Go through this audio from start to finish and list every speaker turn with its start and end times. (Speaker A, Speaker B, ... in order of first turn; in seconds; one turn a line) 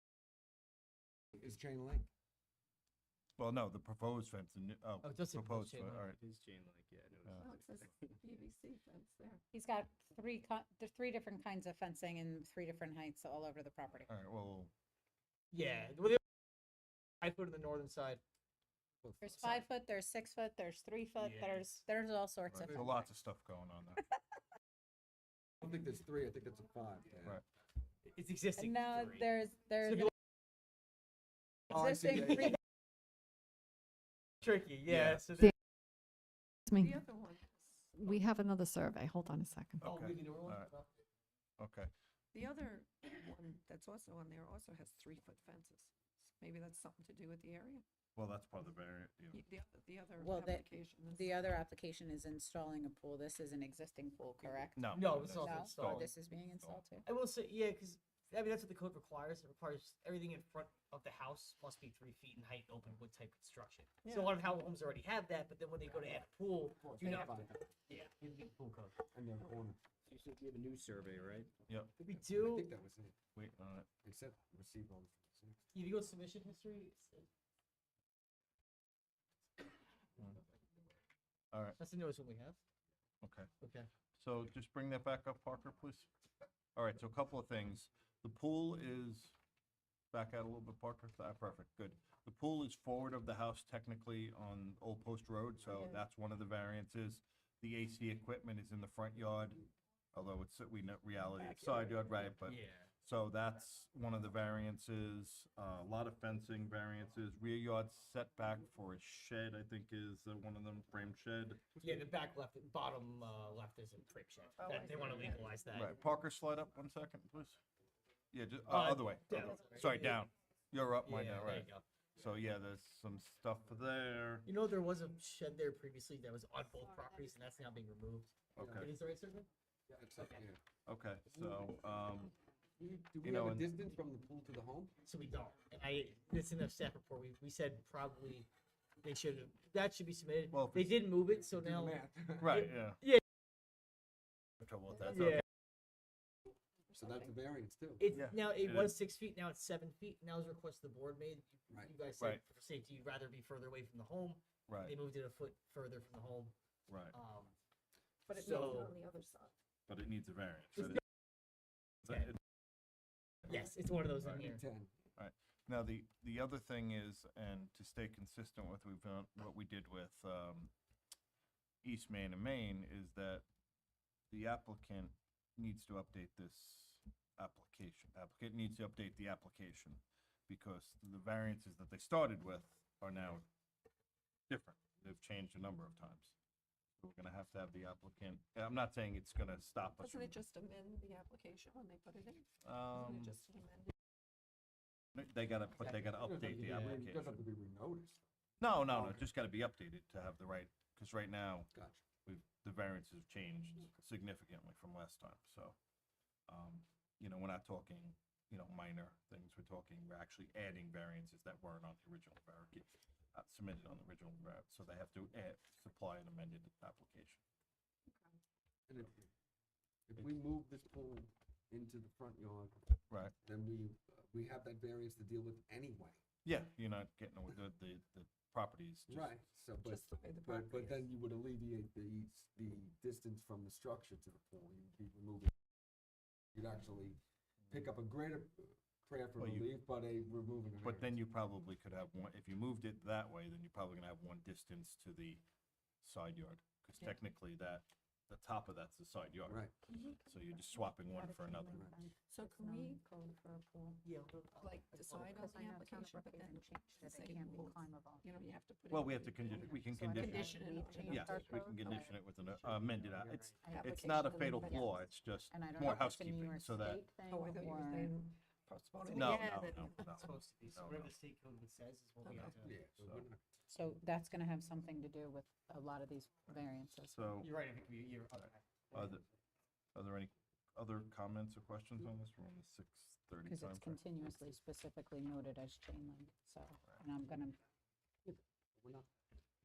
Speaker A: 1.4-2.1
Speaker B: 3.4-6.2
Speaker C: 5.0-6.1
Speaker D: 6.1-8.2
Speaker E: 7.3-9.4
Speaker F: 9.5-14.1
Speaker B: 14.1-14.7
Speaker C: 15.5-16.2
Speaker C: 17.2-18.2
Speaker A: 19.0-19.5
Speaker F: 19.2-23.1
Speaker C: 21.2-21.7
Speaker B: 22.5-24.0
Speaker A: 25.6-27.4
Speaker C: 28.1-29.3
Speaker F: 28.6-30.1
Speaker F: 31.7-32.6
Speaker A: 31.8-32.4
Speaker C: 34.4-35.5
Speaker B: 34.9-35.2
Speaker G: 36.7-36.9
Speaker E: 36.7-38.1
Speaker G: 38.0-39.8
Speaker B: 39.8-40.7
Speaker C: 39.8-40.9
Speaker B: 41.6-41.9
Speaker E: 42.3-47.8
Speaker B: 48.2-49.4
Speaker E: 49.3-51.6
Speaker F: 50.2-57.0
Speaker E: 54.4-54.7
Speaker B: 54.8-56.8
Speaker C: 54.9-56.1
Speaker C: 57.0-69.0
Speaker A: 66.7-67.7
Speaker A: 69.1-69.8
Speaker D: 70.0-71.5
Speaker A: 72.0-73.2
Speaker C: 72.0-72.7
Speaker B: 73.3-73.9
Speaker A: 74.0-75.6
Speaker C: 75.7-77.3
Speaker B: 81.5-81.8
Speaker C: 81.8-82.6
Speaker B: 83.2-83.5
Speaker C: 83.6-83.9
Speaker B: 84.2-86.1
Speaker B: 86.8-89.4
Speaker B: 90.1-111.8
Speaker E: 95.7-96.0
Speaker E: 101.3-102.3
Speaker C: 102.4-102.9
Speaker C: 111.8-116.0
Speaker E: 114.6-115.5
Speaker B: 115.7-117.6
Speaker B: 118.3-124.5
Speaker C: 118.7-120.2
Speaker C: 121.0-121.8
Speaker C: 124.5-129.5
Speaker B: 128.6-128.9
Speaker A: 128.6-128.9
Speaker A: 129.9-130.6
Speaker B: 130.9-132.3
Speaker A: 131.4-131.6
Speaker A: 132.8-134.9
Speaker B: 133.2-133.8
Speaker C: 135.0-138.5
Speaker C: 139.0-143.2
Speaker B: 140.5-141.0
Speaker A: 141.3-142.7
Speaker B: 142.4-143.0
Speaker B: 144.6-145.4
Speaker C: 145.1-145.4
Speaker E: 146.9-147.2
Speaker A: 146.9-148.1
Speaker C: 148.0-156.6
Speaker B: 148.1-149.0
Speaker B: 154.7-155.0
Speaker B: 156.9-157.2
Speaker C: 157.1-157.5
Speaker E: 158.3-159.5
Speaker C: 158.3-159.0
Speaker B: 159.9-161.0
Speaker C: 160.8-161.0
Speaker B: 162.1-162.3
Speaker C: 163.5-164.6
Speaker A: 164.3-164.9
Speaker B: 165.2-170.7
Speaker B: 171.8-173.4
Speaker B: 174.3-183.5
Speaker B: 184.5-186.3
Speaker B: 187.0-190.4
Speaker E: 190.0-193.9
Speaker B: 192.6-193.4
Speaker B: 195.2-197.4
Speaker A: 195.8-198.2
Speaker C: 196.7-197.0
Speaker B: 198.6-201.7
Speaker A: 198.8-199.3
Speaker A: 201.7-202.0
Speaker B: 202.2-205.8
Speaker B: 206.5-217.4
Speaker A: 218.9-219.3
Speaker A: 220.1-226.2
Speaker B: 226.4-229.3
Speaker A: 229.1-235.5
Speaker E: 229.8-231.1
Speaker A: 236.6-237.2
Speaker A: 237.7-241.2
Speaker B: 239.4-239.7
Speaker B: 240.8-245.4
Speaker B: 246.0-249.7
Speaker A: 249.5-249.7
Speaker E: 249.9-250.2
Speaker F: 250.2-254.1
Speaker B: 250.3-251.9
Speaker E: 252.2-253.5
Speaker C: 254.0-255.4
Speaker E: 254.6-262.0
Speaker F: 255.3-258.3
Speaker B: 258.9-267.1
Speaker F: 259.9-262.1
Speaker C: 262.4-263.6
Speaker F: 263.6-268.1
Speaker E: 263.7-264.9
Speaker E: 267.2-270.1
Speaker B: 269.1-271.1
Speaker F: 269.1-269.4
Speaker C: 270.1-272.7
Speaker A: 272.6-273.4
Speaker B: 273.0-273.3
Speaker F: 273.7-277.3
Speaker B: 277.1-277.5
Speaker C: 277.4-279.2
Speaker B: 278.9-279.2
Speaker B: 279.9-284.0
Speaker F: 283.4-287.6
Speaker A: 288.2-289.1